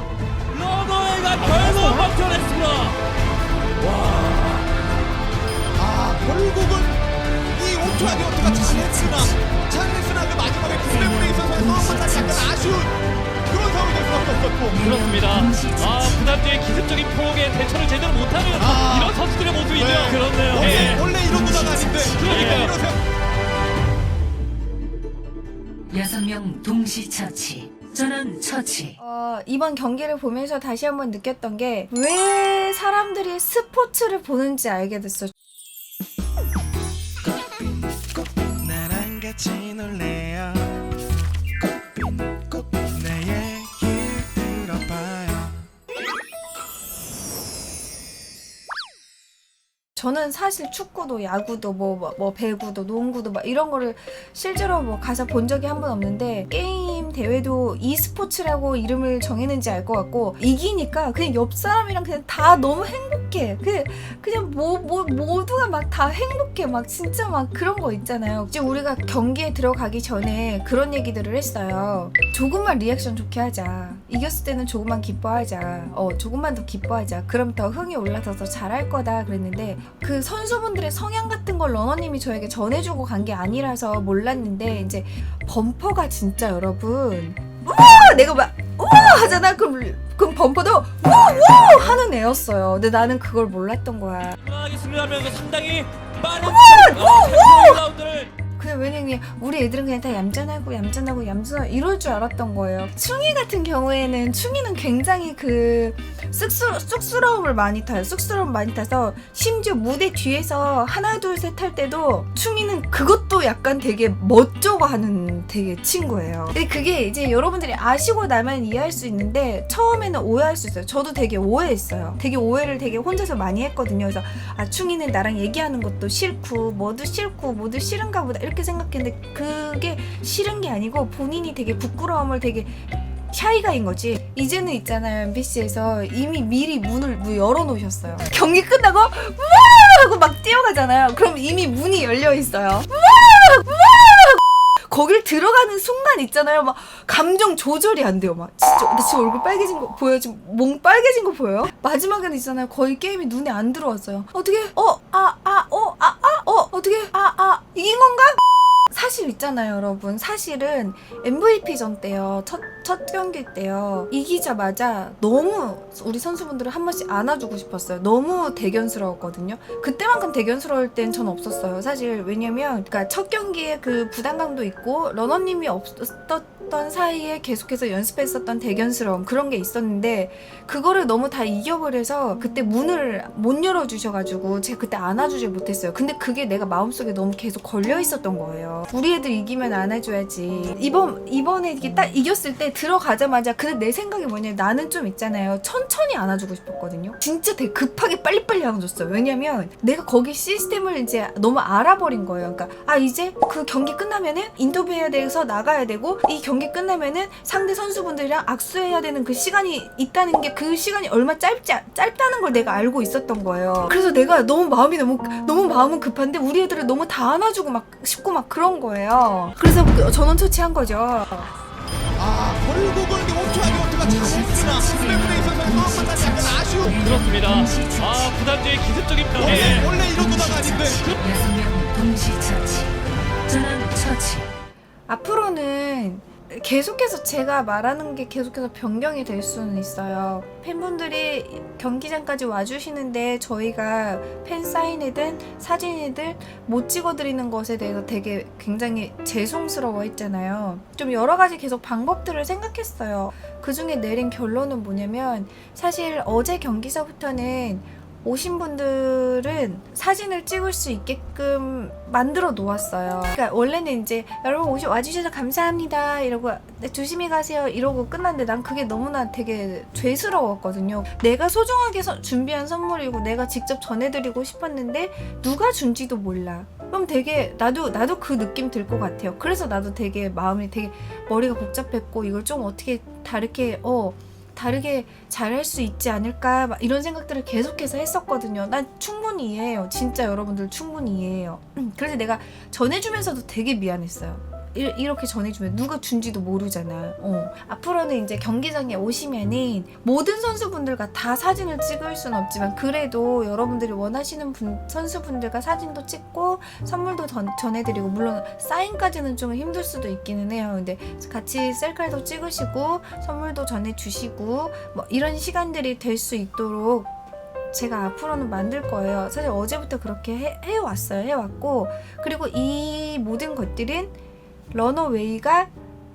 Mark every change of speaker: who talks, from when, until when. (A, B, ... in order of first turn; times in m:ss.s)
0:00.5-0:02.9 A
0:03.8-0:04.6 A
0:05.8-0:06.9 B
0:07.5-0:13.0 B
0:07.8-0:09.4 C
0:10.7-0:12.8 C
0:13.5-0:14.8 B
0:14.7-0:16.4 C
0:14.8-0:21.1 A
0:18.5-0:19.2 B
0:19.7-0:23.0 B
0:20.6-0:22.2 C
0:22.2-0:22.8 A
0:25.9-0:29.0 C
0:29.0-0:35.3 D
0:38.1-0:40.8 E
0:41.9-0:45.6 E
0:50.0-1:34.4 D
1:34.4-1:38.3 A
1:36.3-1:37.8 D
1:38.6-3:41.5 D
3:42.2-3:47.0 B
3:43.4-3:48.3 C
3:47.0-3:49.9 A
3:49.4-3:51.0 B
3:49.4-3:54.5 C
3:55.1-5:17.1 D
5:17.7-5:24.1 D
5:24.7-5:25.7 D